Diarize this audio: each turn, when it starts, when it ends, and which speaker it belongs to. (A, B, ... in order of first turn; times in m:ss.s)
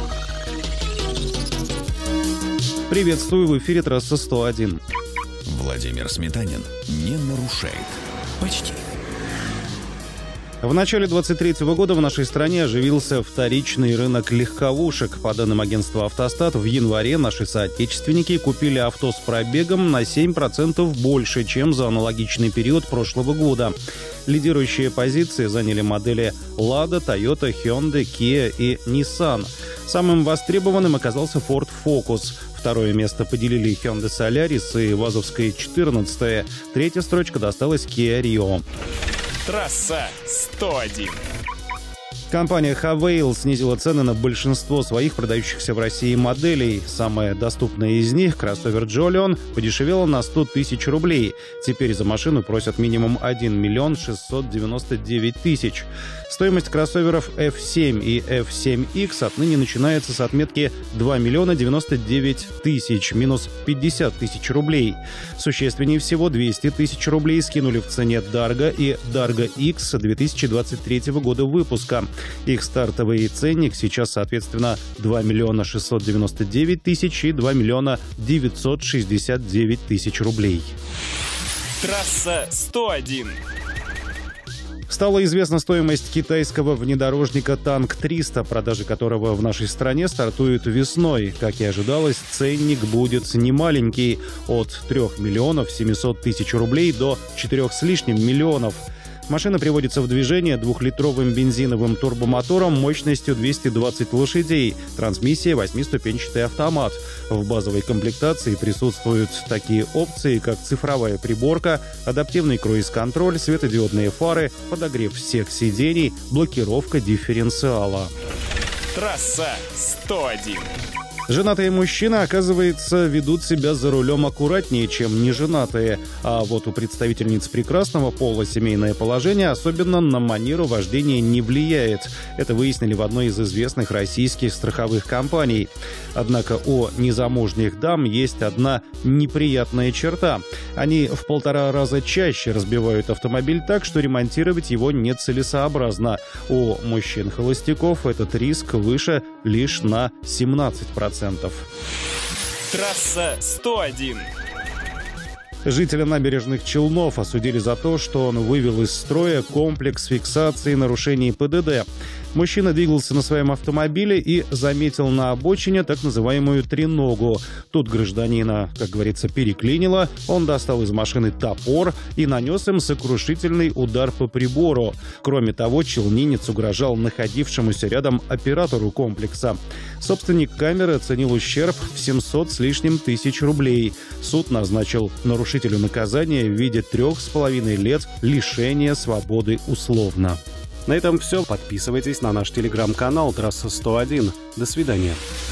0:02.9-0:04.8 A
0:05.4-0:08.8 B
0:10.6-0:38.6 A
0:39.4-0:41.2 C
0:42.3-1:20.7 A
1:21.8-1:23.4 C
1:24.9-1:58.1 A
1:58.9-2:00.7 C
2:01.3-2:31.6 A
2:32.7-2:34.3 C
2:35.6-3:15.2 A